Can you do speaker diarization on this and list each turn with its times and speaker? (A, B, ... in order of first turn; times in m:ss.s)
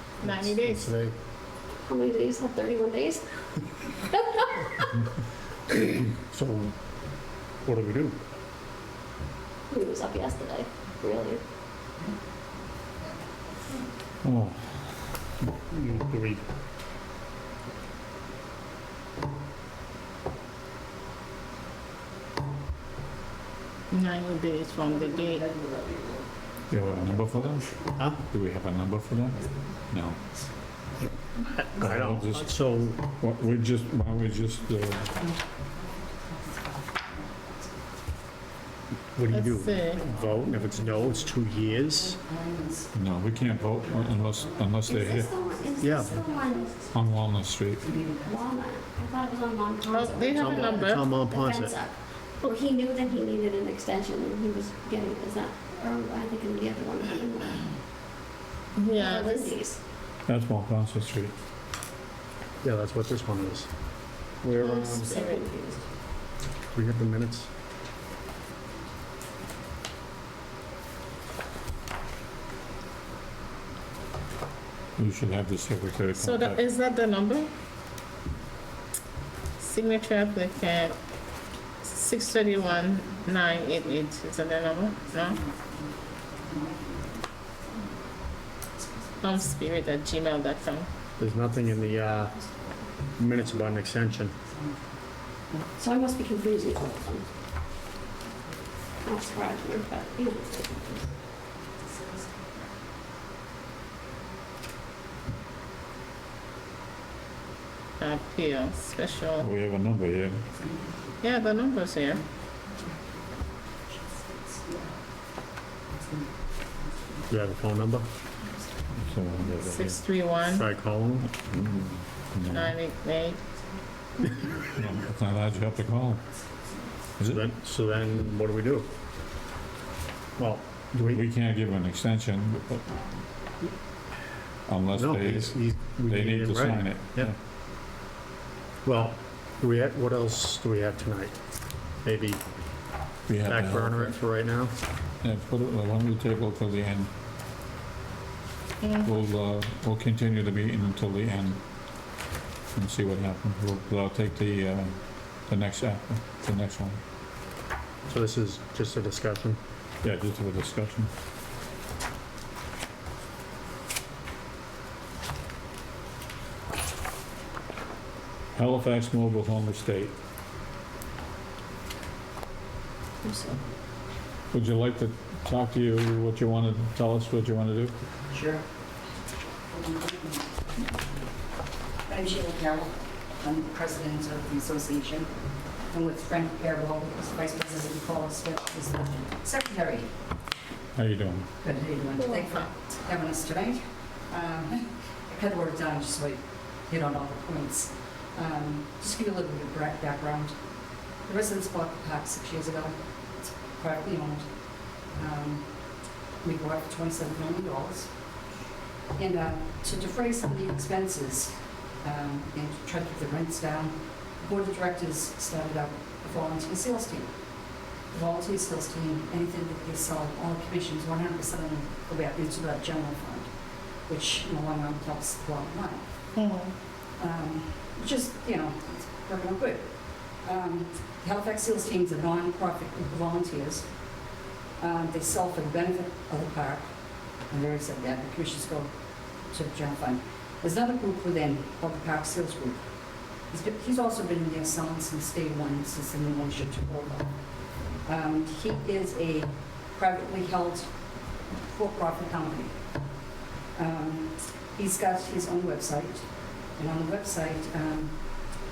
0:00.2-0:00.9 A
0:00.2-0:01.2 B
0:01.8-0:03.2 C
0:04.1-0:04.9 C
0:05.7-0:06.8 B
0:07.6-0:08.2 B
0:09.7-0:11.4 C
0:14.2-0:14.8 D
0:15.5-0:16.4 B
0:23.9-0:25.4 A
0:26.7-0:30.2 D
0:31.7-0:33.0 B
0:31.8-0:35.2 D
0:35.2-0:37.7 E
0:39.2-0:42.2 B
0:39.3-0:40.0 A
0:40.0-0:46.9 E
0:42.9-0:45.3 D
0:44.9-0:46.8 C
0:45.8-0:46.2 B
0:46.9-0:47.8 D
0:47.8-0:48.5 E
0:48.2-0:57.7 C
0:49.9-0:51.1 A
0:50.3-0:51.8 B
0:58.8-0:59.6 A
0:58.9-0:59.8 C
1:00.3-1:01.3 D
1:02.6-1:03.7 B
1:04.4-1:05.3 B
1:04.6-1:05.8 C
1:05.0-1:05.4 A
1:06.7-1:07.5 B
1:15.0-1:16.6 D
1:16.2-1:17.5 A
1:19.6-1:21.0 A
1:21.8-1:25.4 A
1:26.4-1:27.0 E
1:29.2-1:30.9 A
1:31.2-1:32.4 B
1:33.2-1:34.3 B
1:34.5-1:34.8 E
1:35.8-1:37.2 C
1:39.0-1:41.0 C
1:48.0-1:49.5 A
1:49.4-1:50.4 D
1:51.2-1:52.2 A
1:53.9-1:55.0 E
1:57.3-1:58.0 B
1:59.0-2:00.0 D
1:59.7-2:00.6 A
2:00.5-2:01.3 B
2:01.3-2:02.8 D
2:02.5-2:03.4 A
2:04.6-2:06.2 D
2:07.2-2:07.5 D
2:07.3-2:08.9 B
2:10.4-2:11.2 B
2:11.0-2:12.8 D
2:14.7-2:17.4 D
2:14.9-2:17.3 B
2:18.8-2:21.4 B
2:22.0-2:22.4 B
2:23.3-2:24.2 D
2:23.4-2:24.7 B
2:25.2-2:27.1 D
2:29.0-2:31.6 D
2:32.8-2:37.0 D
2:38.1-2:39.6 B
2:40.0-2:41.1 D
2:48.5-2:50.2 D
2:53.2-2:53.6 C
2:54.5-2:57.9 D
2:58.3-2:58.6 E
2:59.7-3:00.5 E
3:02.1-3:05.3 E
3:05.9-3:10.1 E
3:11.0-3:11.5 D
3:11.6-3:20.6 E
3:21.3-3:24.5 E
3:25.1-3:25.7 E
3:26.4-3:28.1 E
3:29.2-3:37.3 E
3:38.1-3:43.5 E
3:44.1-3:46.0 E
3:46.4-3:46.7 A
3:47.2-3:49.9 E
3:50.4-3:53.9 E
3:54.8-3:56.9 E
3:57.5-3:58.9 E
3:59.5-4:02.8 E
4:03.5-4:07.3 E
4:08.0-4:10.9 E
4:11.7-4:12.8 E
4:13.8-4:16.3 E
4:16.8-4:18.2 E